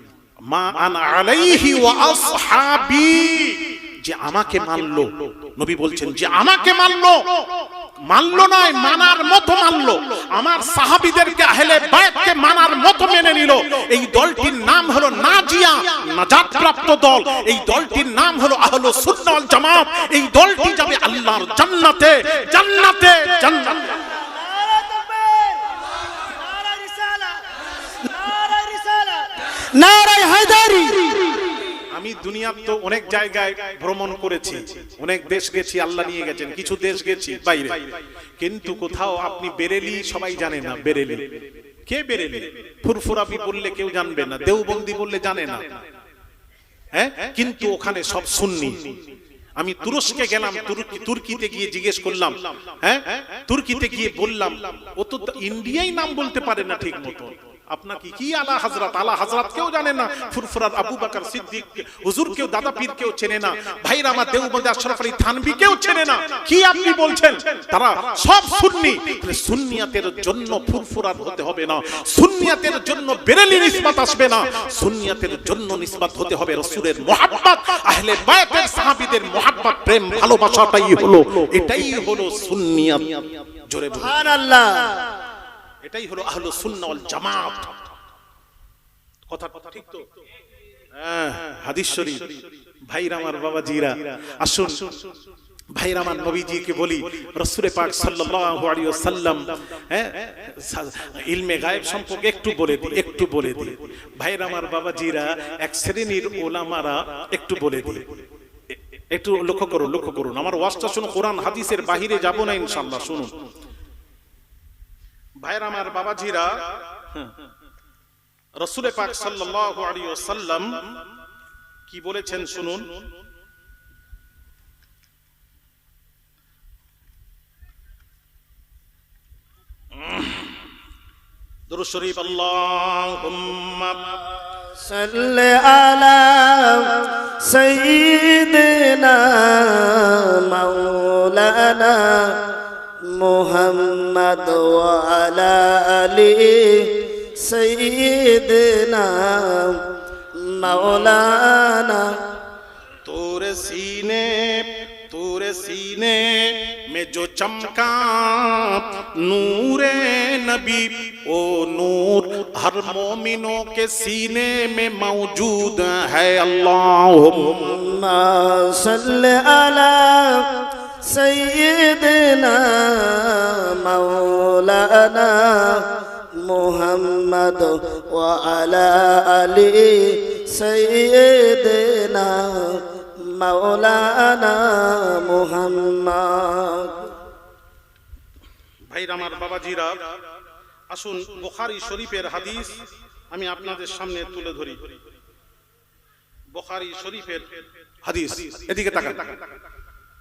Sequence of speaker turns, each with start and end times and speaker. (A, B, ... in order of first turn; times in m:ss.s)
0:00.4-0:24.0 A
0:24.0-0:31.6 B
0:31.9-0:41.3 A
0:41.9-0:45.7 A
0:46.9-0:49.0 A
0:49.6-1:24.3 A
1:24.0-1:25.2 B
1:25.8-1:27.8 A
1:29.3-1:30.1 A
1:31.0-1:34.9 A
1:35.8-1:48.2 A
1:49.1-1:53.3 A
1:55.4-1:57.3 A
1:58.6-2:00.8 A
2:01.9-2:03.0 A
2:10.0-2:10.5 A
2:11.7-2:14.2 A
2:14.8-2:22.4 B
2:23.0-2:32.2 B
2:30.7-2:31.2 A
2:33.0-2:47.8 A
2:47.5-3:07.1 B
3:08.9-3:10.1 A
3:10.9-3:12.8 A
3:13.3-3:14.9 A
3:16.5-3:17.5 A
3:18.0-3:19.4 A